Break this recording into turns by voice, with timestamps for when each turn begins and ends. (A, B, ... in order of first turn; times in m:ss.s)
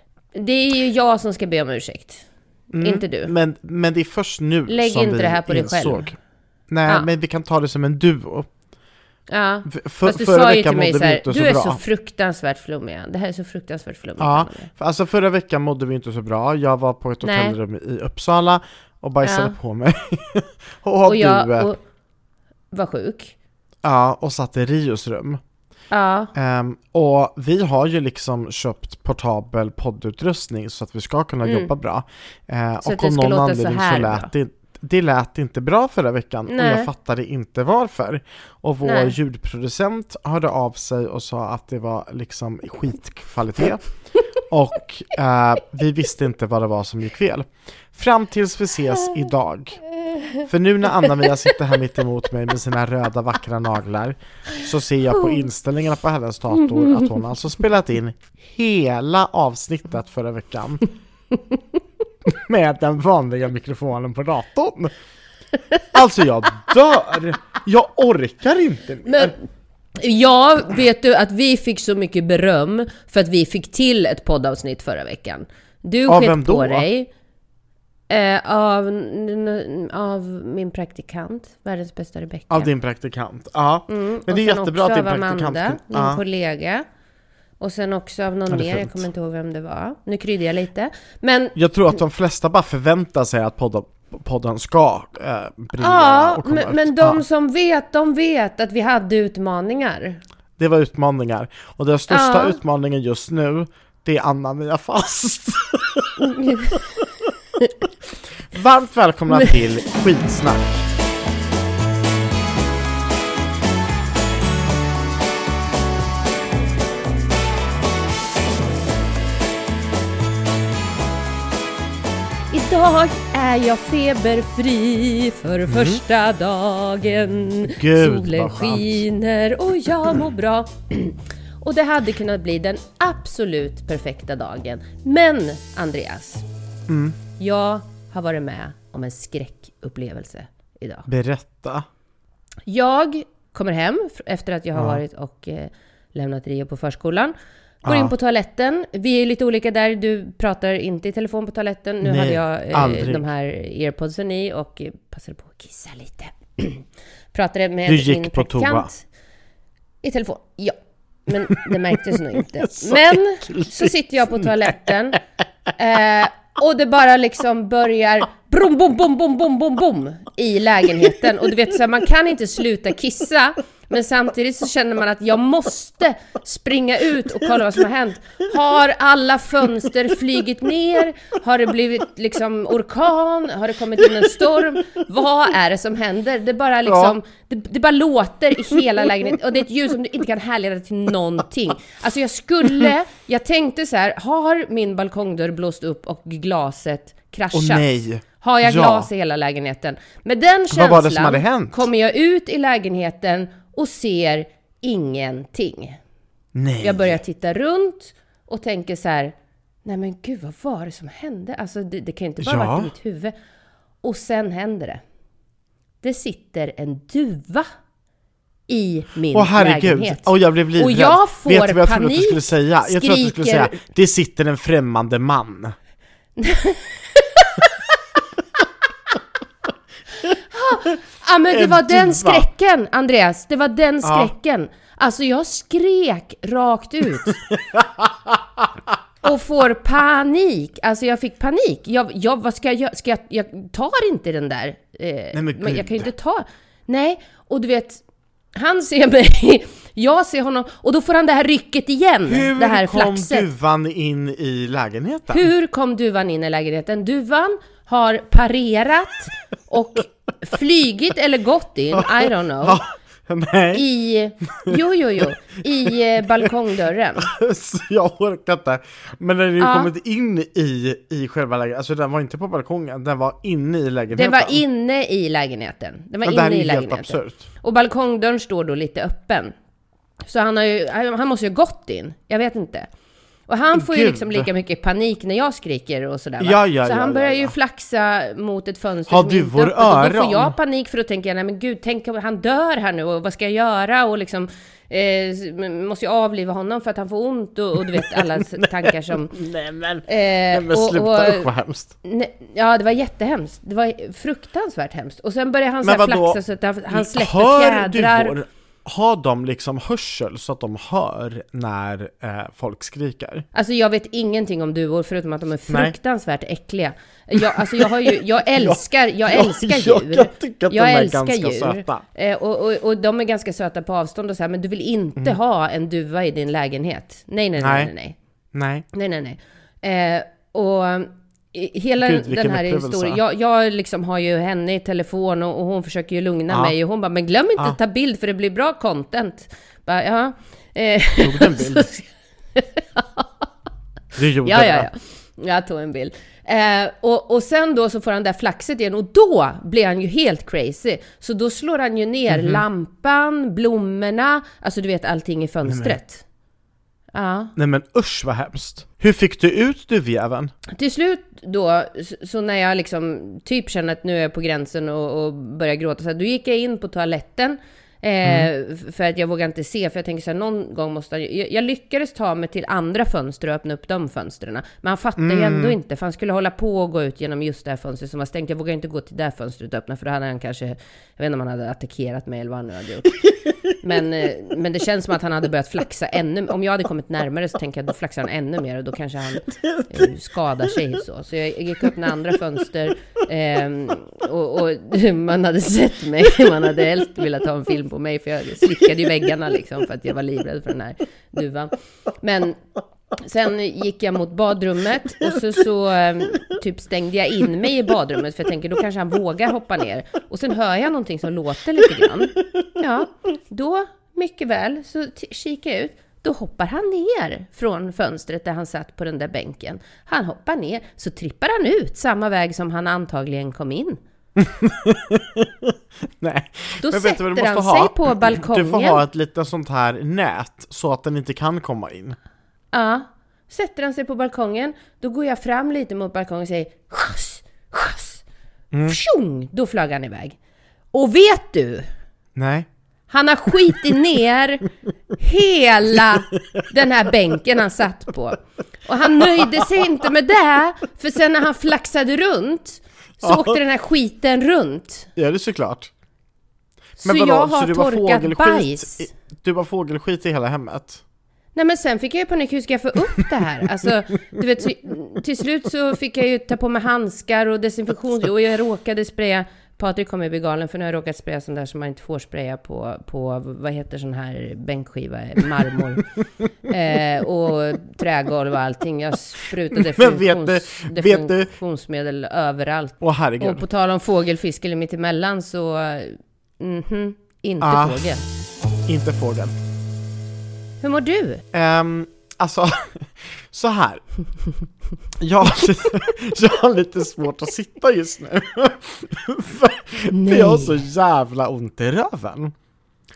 0:00.4-0:02.2 A
0:02.7-0:06.2 B
0:02.8-0:03.3 A
0:04.7-0:06.1 A
0:06.7-0:08.5 B
0:09.3-0:14.7 A
0:09.7-0:11.8 B
0:14.2-0:21.7 B
0:17.2-0:17.6 A
0:19.2-0:19.6 A
0:21.0-0:21.8 A
0:22.7-0:23.3 A
0:23.8-0:25.4 B
0:25.9-0:26.3 A
0:26.3-0:43.9 B
0:31.4-0:31.7 A
0:32.8-0:34.3 A
0:36.5-0:36.9 A
0:38.8-0:39.1 A
0:44.4-0:49.8 B
0:50.4-1:00.8 B
0:56.7-0:57.1 A
1:02.3-1:04.9 B
1:05.9-1:09.3 B
1:09.1-1:09.4 A
1:10.0-1:17.1 A
1:16.1-1:16.8 B
1:18.1-1:22.7 A
1:22.5-1:26.2 B
1:23.9-1:26.8 A
1:27.6-1:31.6 A
1:28.5-1:29.0 B
1:31.6-1:37.2 B
1:35.8-1:40.2 A
1:40.6-1:46.8 B
1:42.1-1:42.6 A
1:46.2-1:46.8 A
1:48.5-1:50.9 B
2:02.5-2:16.4 A
2:05.7-2:06.0 B
2:07.6-2:09.0 B
2:16.9-2:17.2 B
2:17.4-2:21.1 A
2:21.1-2:21.8 B
2:22.7-2:27.3 A
2:24.8-2:25.0 B
2:27.8-2:28.1 B
2:27.8-2:39.0 A
2:32.0-2:33.2 B
2:37.9-2:38.9 B
2:40.0-2:45.2 A
2:42.4-2:44.8 B
2:45.8-3:26.0 A
3:06.9-3:07.2 B
3:17.5-3:19.1 B
3:20.7-3:21.9 B
3:26.5-3:27.2 B
3:26.8-3:29.3 A
3:29.8-3:33.3 A
3:32.4-3:32.9 B
3:34.0-3:35.0 A
3:36.0-3:37.7 A
3:38.7-3:43.8 A
3:39.3-3:45.8 B
3:46.4-3:47.8 A
3:50.2-3:57.4 A
3:51.5-3:52.5 B
3:54.0-3:54.3 B
3:57.2-3:58.7 B
3:59.2-4:08.0 A
4:05.3-4:06.1 B
4:08.6-4:13.5 A
4:12.3-4:15.5 B
4:15.3-4:22.8 A
4:21.9-4:23.8 B
4:23.7-4:27.3 A
4:24.6-4:25.2 B
4:27.2-4:34.6 B
4:29.6-4:29.9 A
4:34.1-4:39.5 A
4:36.2-4:37.4 B
4:40.2-4:42.9 A
4:43.5-4:59.4 A
4:43.8-4:44.5 B
4:46.4-4:47.5 B
4:49.1-4:50.5 B
4:57.9-5:01.9 B
5:00.1-5:01.5 A
5:02.0-5:08.4 A
5:05.8-5:06.4 B
5:06.9-5:13.4 B
5:13.5-5:28.2 A
5:17.6-5:18.1 B
5:18.6-5:22.0 B
5:27.6-5:27.9 B
5:28.5-5:28.9 B
5:28.9-5:43.3 A
5:32.0-5:33.2 B
5:36.5-5:36.8 B
5:41.2-5:41.9 B
5:44.2-5:44.9 B
5:44.4-5:56.2 A
5:52.3-5:52.6 B
5:55.7-5:56.0 B
5:57.1-5:57.5 A
5:57.6-6:00.5 B
6:00.7-6:42.6 A
6:15.2-6:15.8 B
6:43.2-7:04.0 A
7:04.4-7:12.2 B
7:06.8-7:09.0 A
7:12.7-7:18.2 A
7:18.7-7:19.0 B
7:18.8-7:20.4 A
7:20.9-7:21.9 A
7:22.4-7:22.7 B
7:23.1-7:35.1 A
7:29.2-7:29.7 B
7:33.2-7:33.6 B
7:35.2-7:35.9 B
7:37.0-7:39.1 A
7:37.0-7:41.0 B
7:41.6-7:56.1 A
7:56.6-8:08.2 A
7:59.8-8:01.5 B
8:03.0-8:03.6 B
8:07.6-8:08.0 B
8:08.9-8:09.5 B
8:10.8-8:11.4 A
8:11.5-8:14.0 B
8:15.2-8:22.5 B
8:20.1-8:20.8 A